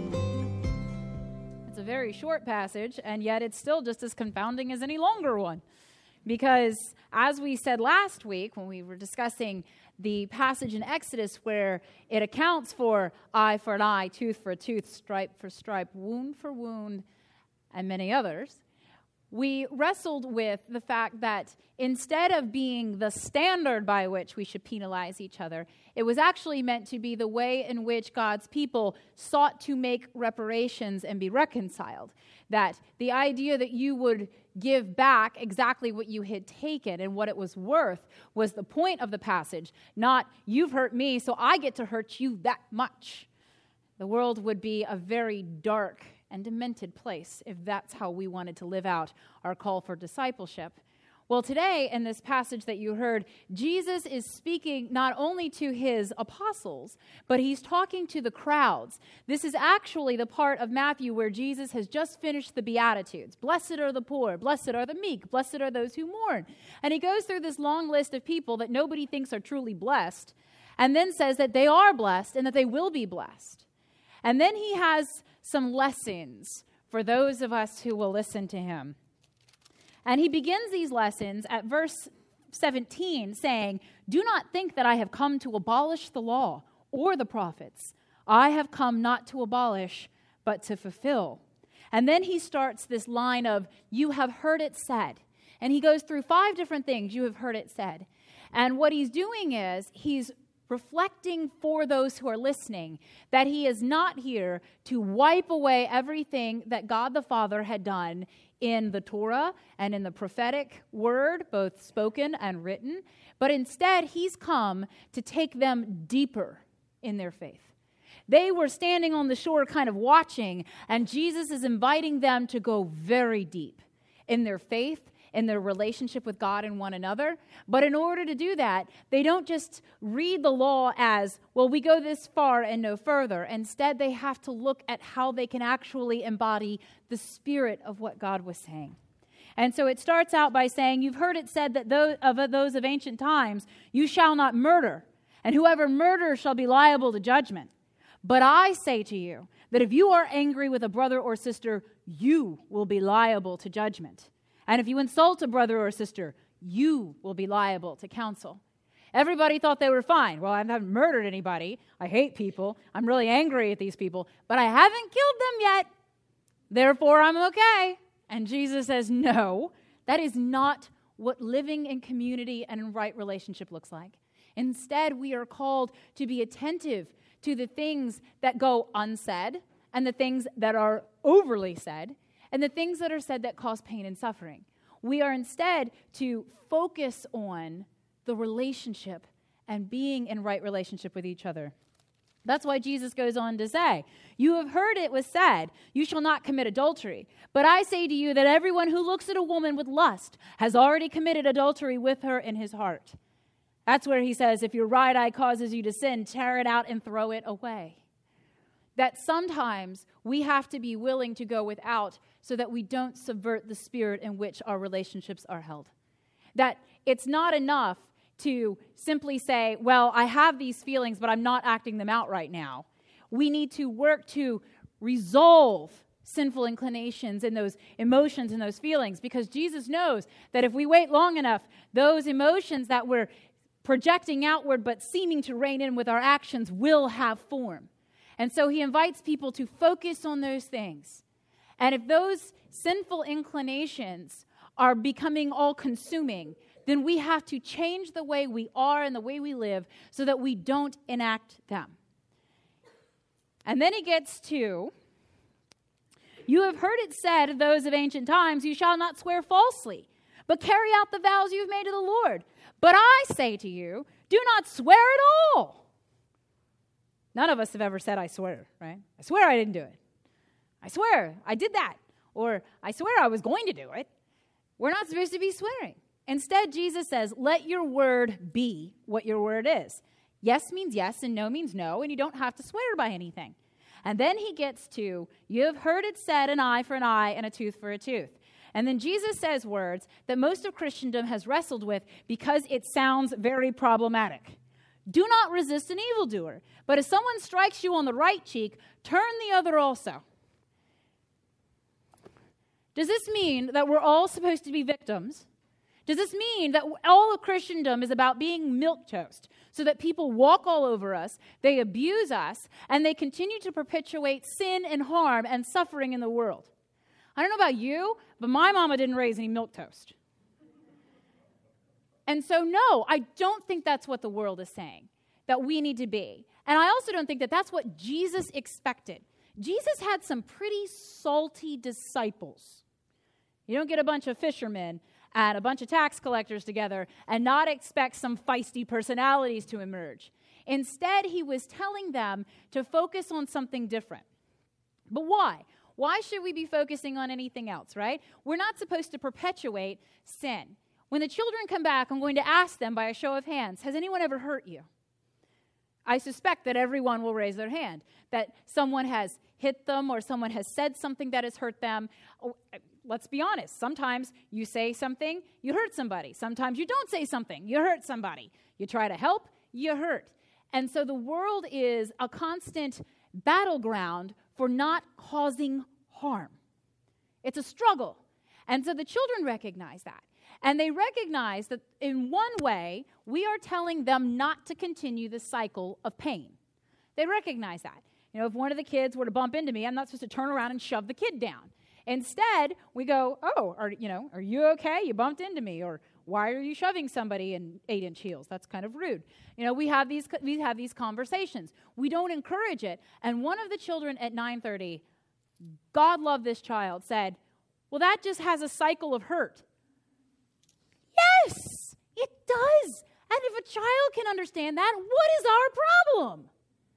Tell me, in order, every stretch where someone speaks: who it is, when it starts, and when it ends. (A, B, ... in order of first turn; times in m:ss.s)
0:01.7-0:05.6 A
0:06.3-0:17.0 A
0:17.7-0:18.6 A
0:19.3-0:43.3 A
0:44.0-0:50.8 A
0:51.3-1:13.6 A
1:14.2-1:19.0 A
1:20.0-1:57.7 A
1:58.3-2:19.0 A
2:19.6-2:27.7 A
2:28.2-2:38.6 A
2:39.1-2:45.9 A
2:46.7-3:11.7 A
3:12.4-3:23.2 A
3:23.9-3:28.0 A
3:29.0-3:35.9 A
3:36.6-3:53.3 A
3:53.8-4:01.2 A
4:01.8-4:12.0 A
4:13.7-4:14.9 A
4:16.5-4:25.8 A
4:27.3-4:30.0 A
4:30.8-4:34.1 A
4:34.8-5:00.2 A
5:02.9-5:05.5 A
5:06.1-5:16.7 A
5:17.4-5:20.2 A
5:22.3-5:32.8 A
5:33.7-5:44.2 A
5:45.1-5:54.9 A
5:56.1-6:16.6 A
6:17.4-6:26.6 A
6:27.2-6:45.0 A
6:45.9-6:47.4 A
6:47.9-6:49.6 A
6:51.1-6:56.5 A